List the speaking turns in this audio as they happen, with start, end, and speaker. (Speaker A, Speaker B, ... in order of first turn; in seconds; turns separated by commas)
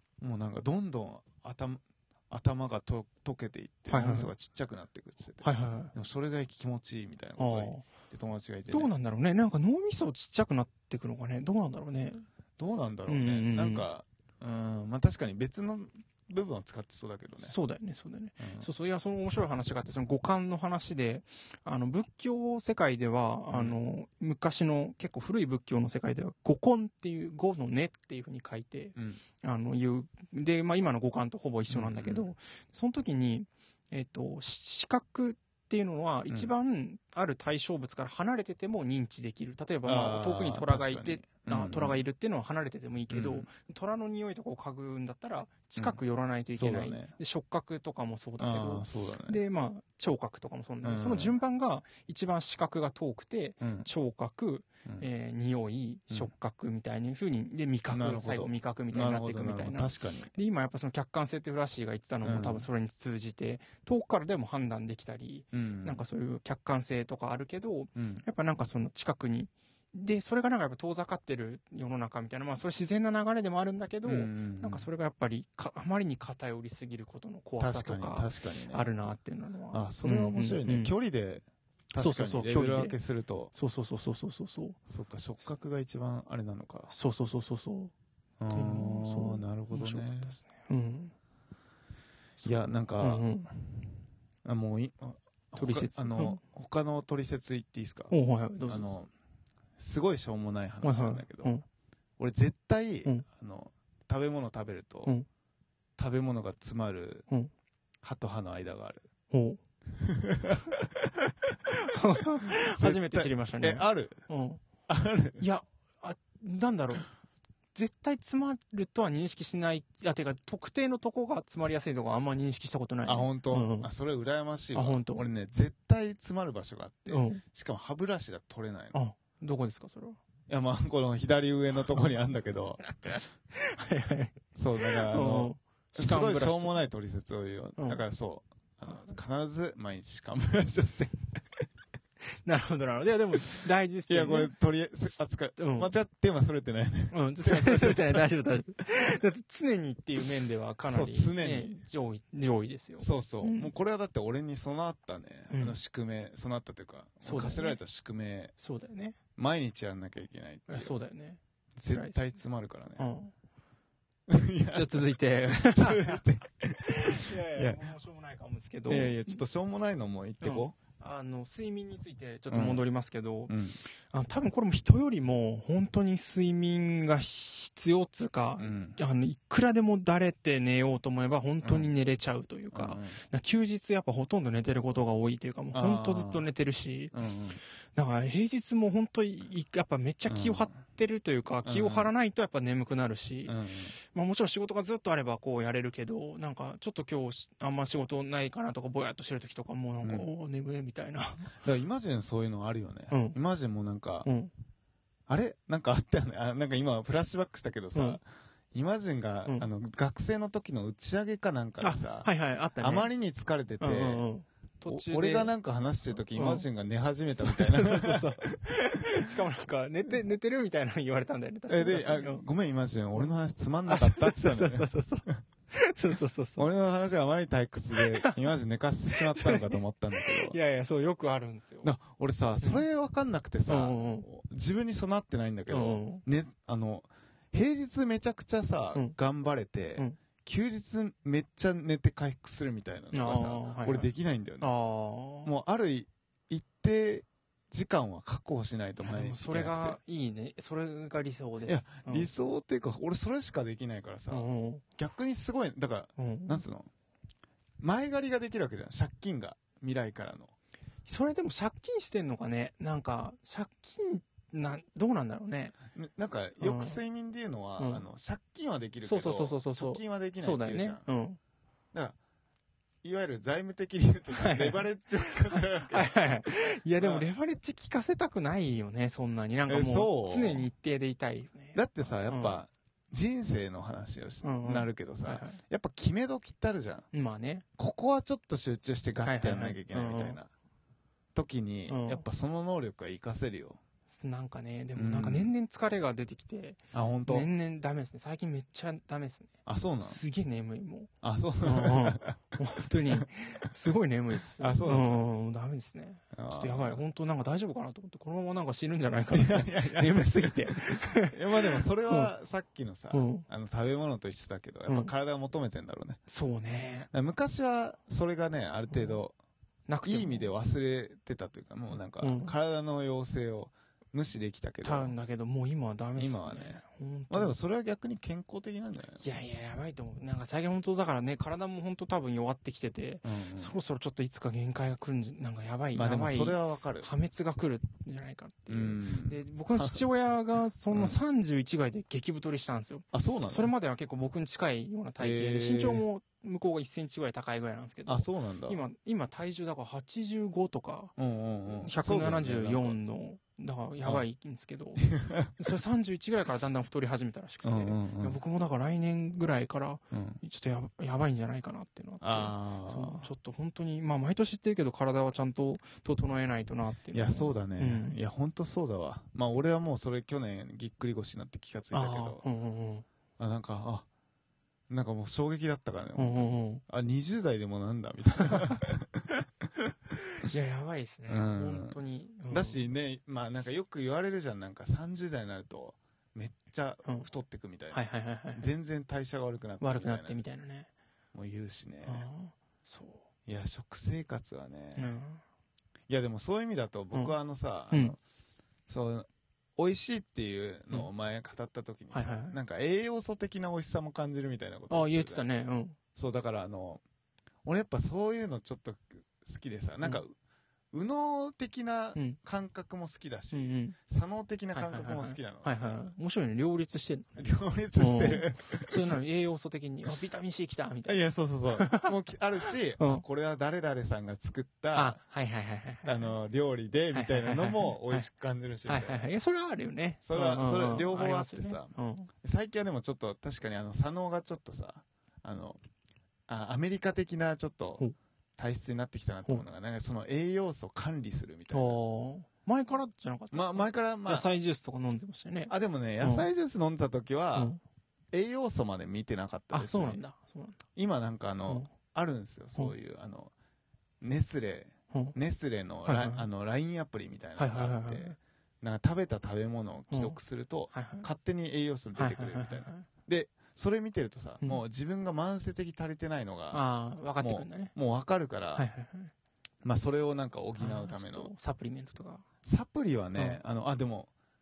Speaker A: 0.2-8.9, Speaker B: 3.9-4.3, Speaker B: 5.4-5.9, Speaker B: 7.4-7.9, Speaker B: 8.7-12.3, Speaker A: 12.6-17.6, Speaker B: 13.1-13.9, Speaker B: 17.4-80.9, Speaker A: 18.4-18.7, Speaker A: 23.5-23.8, Speaker A: 29.0-29.2, Speaker A: 31.7-32.3, Speaker A: 39.9-42.0, Speaker A: 43.1-43.5, Speaker A: 46.5-47.1, Speaker A: 48.4-49.4, Speaker A: 50.8-51.3, Speaker A: 53.6-53.9, Speaker A: 57.9-60.3, Speaker A: 62.2-62.7, Speaker A: 65.5-66.0, Speaker A: 68.0-68.3, Speaker A: 74.0-74.9, Speaker A: 77.6-78.9, Speaker A: 79.7-83.5, Speaker B: 82.0-83.0, Speaker B: 83.5-84.8, Speaker A: 84.9-86.9, Speaker B: 86.9-87.9, Speaker A: 88.4-90.4, Speaker B: 88.5-91.1, Speaker A: 92.4-93.3, Speaker B: 92.4-93.9, Speaker A: 94.4-98.1, Speaker B: 95.6-96.4, Speaker B: 98.1-98.9, Speaker A: 98.7-99.1, Speaker A: 99.8-101.5, Speaker B: 100.8-101.7, Speaker A: 102.2-105.2, Speaker A: 106.0-107.3, Speaker A: 108.0-109.1, Speaker B: 109.3-109.6, Speaker A: 109.9-111.1, Speaker B: 111.7-114.6, Speaker A: 112.5-114.2, Speaker A: 114.9-115.4, Speaker B: 115.4-117.1, Speaker B: 117.8-123.9, Speaker A: 123.0-129.0, Speaker B: 124.7-125.3, Speaker B: 127.1-127.4, Speaker B: 128.9-130.2, Speaker A: 130.5-133.2, Speaker B: 133.0-136.8, Speaker A: 134.6-141.3, Speaker B: 142.4-144.5, Speaker A: 144.1-148.3, Speaker B: 145.6-145.9, Speaker B: 147.1-153.7, Speaker A: 150.9-151.8, Speaker A: 153.0-158.5, Speaker B: 155.5-155.8, Speaker B: 157.2-157.8, Speaker B: 158.6-159.2, Speaker A: 159.4-160.9, Speaker B: 160.7-162.2, Speaker A: 161.8-163.1, Speaker B: 163.0-163.3, Speaker A: 164.3-165.1, Speaker B: 164.7-166.2, Speaker A: 165.7-167.8, Speaker B: 166.9-169.4, Speaker A: 168.9-170.8, Speaker B: 170.4-173.6, Speaker A: 172.5-172.8, Speaker A: 173.5-173.8, Speaker B: 174.1-187.1, Speaker A: 178.6-179.0, Speaker A: 181.6-181.9, Speaker A: 182.7-183.2, Speaker A: 185.7-186.5, Speaker A: 187.1-187.6, Speaker B: 188.0-193.6, Speaker A: 190.3-190.7, Speaker A: 191.7-192.1, Speaker A: 193.5-193.9, Speaker B: 194.1-201.6, Speaker A: 200.0-200.3, Speaker A: 201.5-204.3, Speaker B: 203.1-203.4, Speaker B: 204.2-204.5, Speaker A: 205.3-212.3, Speaker B: 207.9-208.2, Speaker B: 211.8-213.1, Speaker A: 212.8-214.3, Speaker B: 213.8-215.5, Speaker A: 214.9-218.6, Speaker B: 216.3-216.7, Speaker B: 217.4-222.4, Speaker A: 221.7-225.4, Speaker B: 223.9-226.7, Speaker A: 226.6-230.6, Speaker B: 227.9-228.4, Speaker B: 229.1-231.9, Speaker A: 231.8-244.7, Speaker B: 232.6-232.8, Speaker B: 233.7-234.3, Speaker B: 235.7-236.2, Speaker B: 243.1-244.1, Speaker B: 244.6-245.5, Speaker A: 245.4-250.0, Speaker B: 249.0-252.3, Speaker A: 251.7-256.9, Speaker B: 254.3-254.8, Speaker B: 256.2-256.6, Speaker A: 257.8-260.5, Speaker B: 261.1-265.8, Speaker A: 265.9-271.0, Speaker B: 266.6-267.0, Speaker B: 267.8-268.1, Speaker B: 269.1-271.4, Speaker A: 273.0-276.1, Speaker B: 274.3-274.9, Speaker B: 275.5-282.6, Speaker A: 277.0-277.3, Speaker A: 279.7-280.7, Speaker A: 281.7-287.1, Speaker B: 284.4-285.6, Speaker B: 287.1-287.6, Speaker A: 287.8-290.5, Speaker B: 289.2-290.4, Speaker A: 291.4-293.8, Speaker B: 291.9-292.2, Speaker B: 294.1-301.1, Speaker A: 295.0-295.5, Speaker A: 296.9-297.5, Speaker A: 299.7-300.2, Speaker A: 301.2-302.4, Speaker B: 301.6-312.3, Speaker A: 304.6-305.2, Speaker A: 306.3-307.0, Speaker A: 309.3-316.2, Speaker B: 313.1-313.5, Speaker B: 314.9-315.1, Speaker B: 316.3-317.1, Speaker A: 317.1-319.4, Speaker B: 318.9-319.2, Speaker B: 319.9-320.5, Speaker A: 320.1-325.1, Speaker B: 322.2-322.5, Speaker B: 324.8-327.6, Speaker A: 326.2-329.2, Speaker B: 329.2-351.1, Speaker A: 333.2-333.7, Speaker A: 335.9-337.1, Speaker A: 338.7-340.1, Speaker A: 343.1-343.7, Speaker A: 345.2-346.1, Speaker A: 348.1-348.8, Speaker A: 351.2-353.0, Speaker B: 351.7-368.2, Speaker A: 355.0-355.8, Speaker A: 357.6-358.4, Speaker A: 360.1-360.4, Speaker A: 362.2-363.3, Speaker A: 367.1-372.4, Speaker B: 371.9-373.1, Speaker A: 373.4-374.1, Speaker A: 374.9-379.4, Speaker B: 376.2-376.8, Speaker B: 378.5-378.8, Speaker B: 380.3-382.9, Speaker A: 381.3-382.0, Speaker A: 382.5-390.4, Speaker B: 387.9-388.7, Speaker B: 389.8-390.9, Speaker A: 391.3-392.3, Speaker B: 392.0-393.3, Speaker A: 393.5-395.2, Speaker B: 395.0-395.4, Speaker A: 396.1-398.2, Speaker A: 398.9-405.4, Speaker B: 402.1-402.6, Speaker B: 404.9-406.0, Speaker A: 406.1-407.0, Speaker A: 407.6-410.3, Speaker A: 410.9-416.1, Speaker B: 413.5-414.0, Speaker B: 414.7-421.2, Speaker A: 417.4-419.2, Speaker A: 421.1-425.2, Speaker B: 421.7-422.1, Speaker B: 423.0-423.2, Speaker B: 424.9-426.3, Speaker A: 426.1-429.3, Speaker B: 427.1-428.3, Speaker B: 428.9-432.3, Speaker A: 430.2-435.8, Speaker A: 436.5-438.0, Speaker A: 438.6-442.0, Speaker B: 441.7-446.5, Speaker A: 443.5-444.5, Speaker A: 445.7-447.7, Speaker B: 447.5-447.8, Speaker A: 448.3-450.2, Speaker B: 449.7-450.8, Speaker A: 450.9-453.5, Speaker A: 454.2-466.8, Speaker B: 456.1-456.4, Speaker B: 457.6-458.4, Speaker B: 460.1-460.4, Speaker B: 460.9-461.3, Speaker B: 462.2-463.1, Speaker B: 466.7-467.9, Speaker A: 467.4-468.9, Speaker B: 468.8-469.3, Speaker A: 469.8-471.5, Speaker B: 470.8-472.4, Speaker A: 472.6-474.3